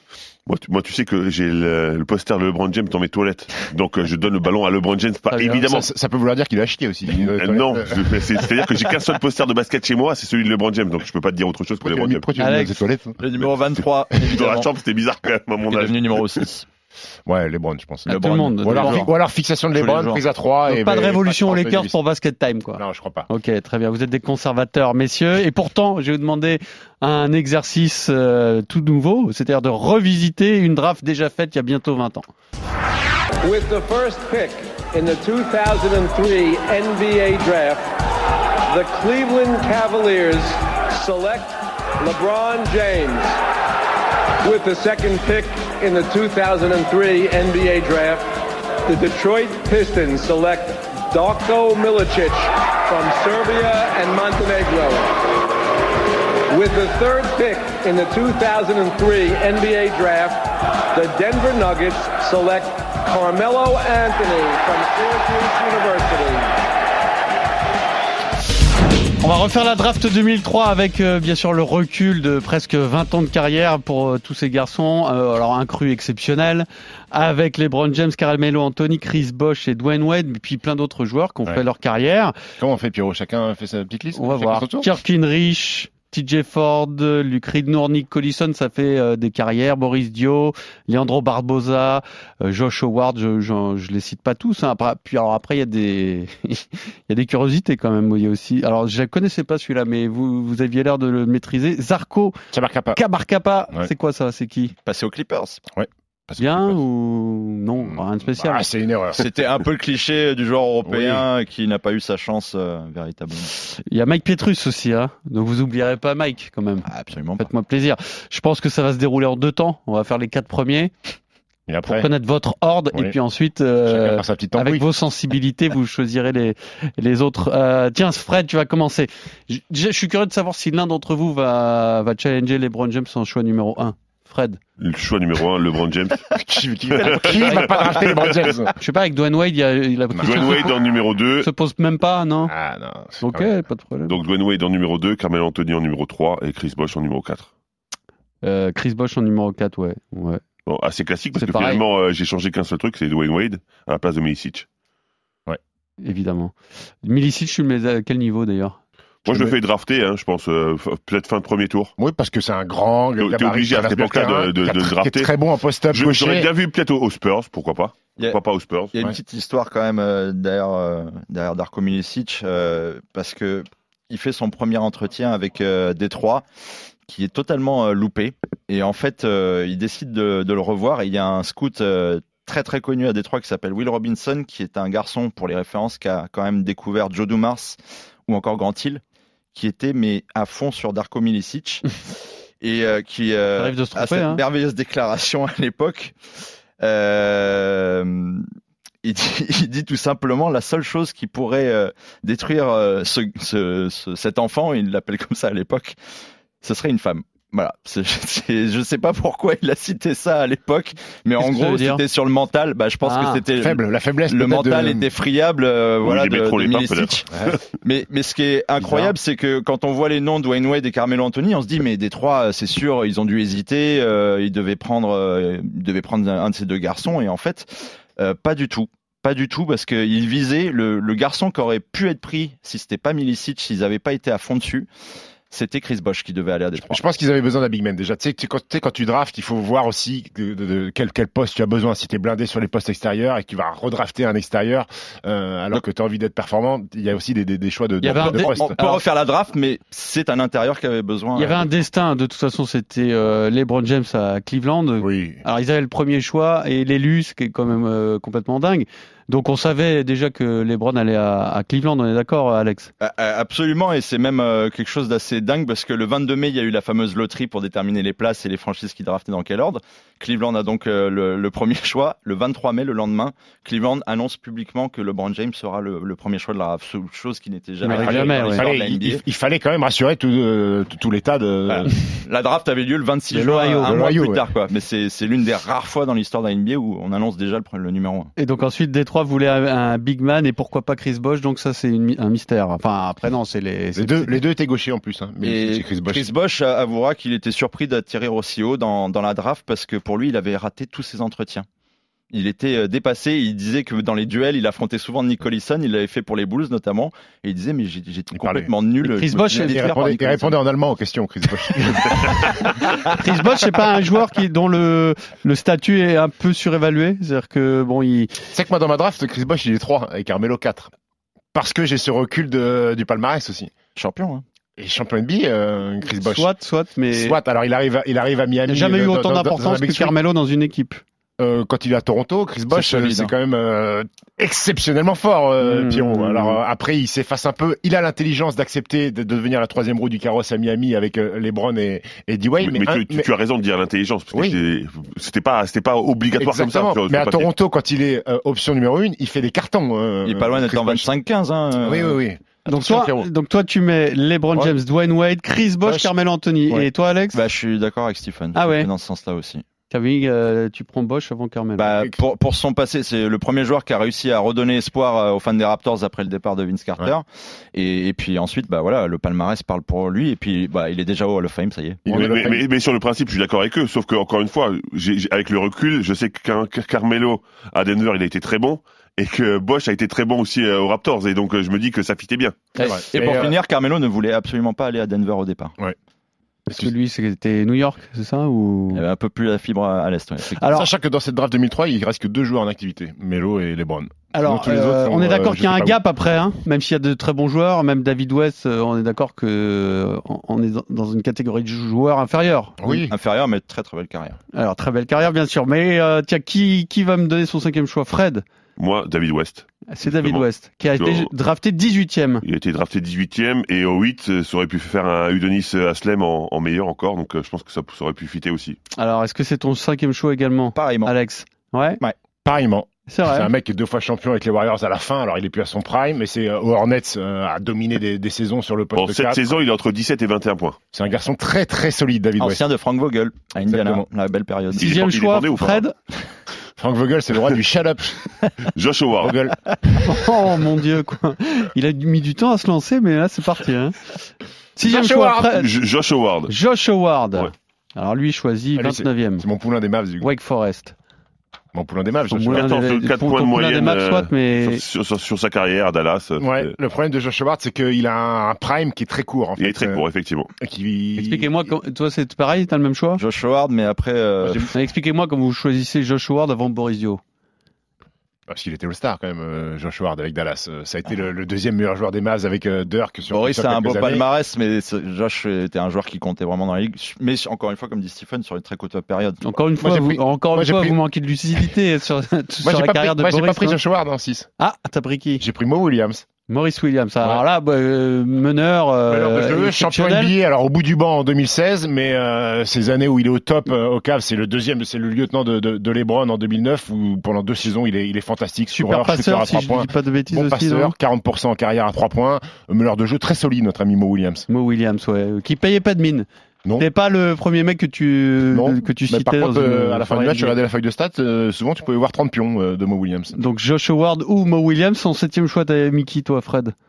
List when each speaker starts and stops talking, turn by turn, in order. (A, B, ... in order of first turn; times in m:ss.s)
0:00.5-0:05.9 A
0:05.3-0:05.7 B
0:05.6-0:08.5 C
0:07.1-0:12.2 A
0:11.8-0:13.2 C
0:12.4-0:12.7 B
0:13.2-0:14.7 D
0:14.2-0:16.2 A
0:15.7-0:16.7 D
0:17.3-0:22.0 C
0:18.1-0:19.1 D
0:18.1-0:19.1 B
0:19.8-0:20.2 D
0:20.7-0:32.3 B
0:22.8-0:23.3 C
0:33.4-0:37.9 E
0:38.7-0:43.4 E
0:44.4-0:48.3 E
0:48.9-0:55.2 E
0:56.5-1:06.6 E
1:09.2-1:22.3 B
1:22.6-1:24.9 C
1:24.2-1:42.4 B
1:42.5-1:43.0 C
1:42.9-1:44.7 B
1:44.8-1:45.6 D
1:45.7-1:46.8 C
1:46.4-1:48.7 B
1:47.8-1:49.3 C
1:49.2-1:53.5 D
1:50.9-1:51.3 C
1:53.9-1:56.9 B
1:56.9-1:57.5 D
1:57.4-2:00.9 B
2:01.7-2:02.1 C
2:01.8-2:14.6 B
2:03.9-2:04.8 C
2:14.8-2:16.4 A
2:16.3-2:18.8 C
2:16.9-2:18.5 A
2:18.8-2:20.7 B
2:20.1-2:20.7 C
2:20.2-2:21.5 A
2:21.4-2:22.5 B
2:22.5-2:23.6 C
2:23.2-2:24.2 B
2:24.1-2:27.5 A
2:28.4-2:30.4 B
2:30.7-2:34.7 A
2:31.4-2:31.8 B
2:36.0-2:38.8 B
2:39.2-2:41.9 A
2:39.3-2:39.6 C
2:42.0-2:46.5 C
2:43.2-2:45.3 A
2:45.9-2:48.9 A
2:48.9-2:56.4 D
2:57.1-3:09.0 D
3:09.5-3:12.0 D
3:12.6-3:16.2 D
3:13.6-3:14.4 B
3:16.8-3:18.5 D
3:19.0-3:26.0 D
3:26.6-3:37.3 D
3:31.4-3:32.0 B
3:33.0-3:33.4 B
3:33.6-3:35.1 C
3:36.0-3:37.6 A
3:37.3-3:37.6 C
3:37.8-3:54.9 D
3:55.5-3:57.0 D
3:56.8-4:08.7 C
4:08.0-4:09.0 B
4:08.0-4:11.7 D
4:11.4-4:22.9 B
4:15.0-4:15.4 C
4:23.0-4:39.2 D
4:37.8-4:38.6 B
4:37.9-4:42.0 C
4:41.7-4:48.3 D
4:43.3-4:43.9 B
4:43.8-4:44.4 C
4:48.4-4:54.4 B
4:54.0-4:56.3 C
4:55.4-5:01.7 D
5:02.3-5:10.6 D
5:08.3-5:08.7 C
5:09.0-5:10.0 B
5:09.4-5:12.7 C
5:12.6-5:18.4 B
5:18.5-5:20.9 C
5:21.5-5:23.7 C
5:24.0-5:24.4 D
5:24.8-5:26.5 C
5:26.1-5:27.4 B
5:27.1-5:30.2 C
5:28.7-5:31.0 B
5:31.4-5:43.3 C
5:32.7-5:33.3 D
5:35.6-5:36.6 B
5:42.6-5:47.5 A
5:44.3-5:44.6 C
5:46.4-5:51.1 C
5:50.2-5:52.2 D
5:51.8-5:53.3 C
5:52.7-5:57.4 B
5:55.8-5:56.1 C
5:57.3-5:59.6 D
5:58.6-5:58.9 B
5:59.9-6:02.0 B
6:01.8-6:12.0 D
6:12.1-6:12.7 C
6:12.1-6:22.6 A
6:22.8-6:23.0 B
6:22.8-6:23.5 C
6:23.1-6:25.8 D
6:26.7-6:29.0 B
6:28.9-6:30.6 D
6:30.6-6:30.9 B
6:30.7-6:36.0 C
6:34.3-6:43.0 B
6:42.8-6:43.1 C
6:43.1-6:44.4 D
6:44.5-6:48.4 B
6:48.8-6:51.3 A
6:49.9-6:52.4 B
6:52.4-6:58.8 A
6:59.0-7:02.0 B
7:00.8-7:01.1 D
7:02.4-7:09.6 C
7:03.1-7:03.5 B
7:09.0-7:10.8 A
7:10.9-7:12.6 C
7:12.4-7:15.0 D
7:13.6-7:14.1 C
7:14.8-7:15.9 B
7:14.8-7:15.8 A
7:16.8-7:18.2 C
7:18.7-7:19.4 A
7:19.2-7:20.1 C
7:20.0-7:24.1 B
7:24.8-7:25.7 B
7:24.8-7:25.5 C
7:25.4-7:26.5 A
7:26.5-7:29.5 B
7:28.8-7:30.3 C
7:30.2-7:31.0 B
7:31.7-7:32.8 C
7:32.3-7:34.8 B
7:32.5-7:36.7 A
7:36.4-7:40.0 C
7:39.6-7:40.5 A
7:40.6-7:41.7 C
7:41.2-7:43.2 B
7:43.2-7:44.7 D
7:44.4-7:44.7 C
7:44.7-7:47.2 B
7:48.5-7:54.2 C
7:53.3-7:59.4 D
7:59.4-8:03.8 B
7:59.8-8:01.0 C
8:02.6-8:04.5 C
8:04.6-8:05.4 B
8:05.4-8:06.3 C
8:06.5-8:10.3 B
8:09.1-8:24.5 C
8:18.7-8:21.0 B
8:24.5-8:26.3 B
8:26.8-8:30.6 B
8:28.5-8:33.4 C
8:33.4-8:36.8 B